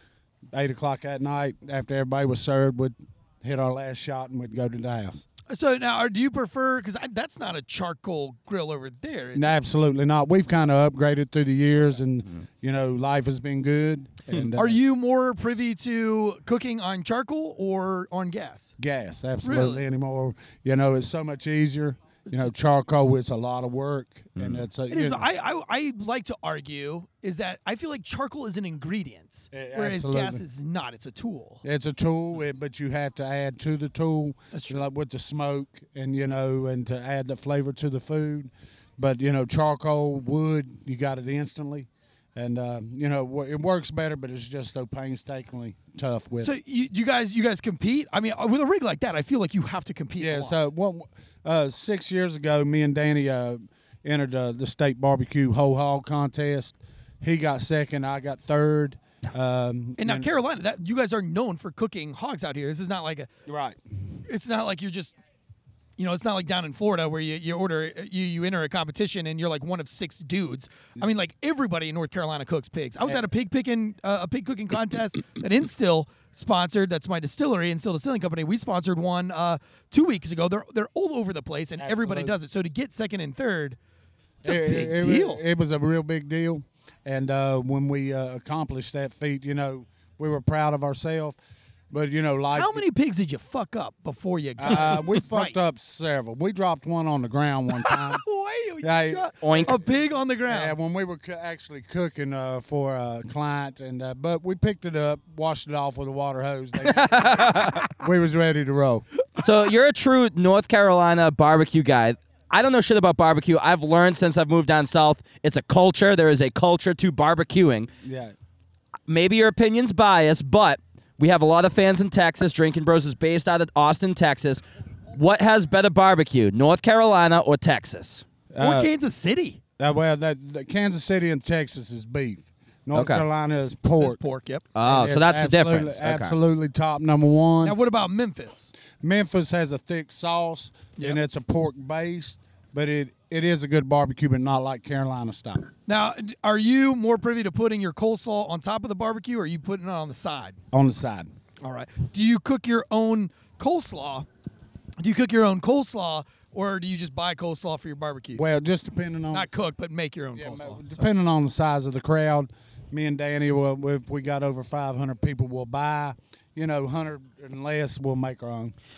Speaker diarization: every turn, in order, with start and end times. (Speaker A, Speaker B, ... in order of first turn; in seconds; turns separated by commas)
Speaker A: 0.5-5.2, Speaker B: 5.5-9.5, Speaker A: 9.3-14.8, Speaker B: 14.5-18.7, Speaker A: 18.8-25.2, Speaker B: 19.4-19.8, Speaker C: 24.4-24.6, Speaker B: 24.9-31.6, Speaker A: 29.5-30.4, Speaker A: 31.6-46.5, Speaker B: 34.5-34.8, Speaker B: 46.4-50.6, Speaker A: 50.2-60.3, Speaker B: 60.0-63.3, Speaker A: 63.5-63.8, Speaker B: 64.3-65.1, Speaker B: 66.0-83.8, Speaker A: 81.8-82.4, Speaker B: 84.4-85.4, Speaker A: 84.4-91.4, Speaker A: 91.9-92.8, Speaker B: 92.5-95.5, Speaker A: 94.6-98.2, Speaker B: 97.8-100.8, Speaker A: 98.8-109.0, Speaker C: 99.4-99.8, Speaker C: 106.8-107.9, Speaker C: 109.4-117.9, Speaker A: 118.0-118.3, Speaker C: 119.1-128.2, Speaker A: 128.5-128.9, Speaker B: 128.6-129.6, Speaker A: 129.8-134.2, Speaker C: 132.9-133.2, Speaker B: 134.0-134.6, Speaker C: 134.7-136.3, Speaker A: 134.8-137.8, Speaker B: 137.6-138.7, Speaker A: 139.0-145.7, Speaker B: 145.9-150.6, Speaker A: 150.7-151.3, Speaker B: 151.6-154.2, Speaker B: 155.0-158.4, Speaker A: 158.3-159.5, Speaker B: 159.3-161.0, Speaker A: 160.3-168.7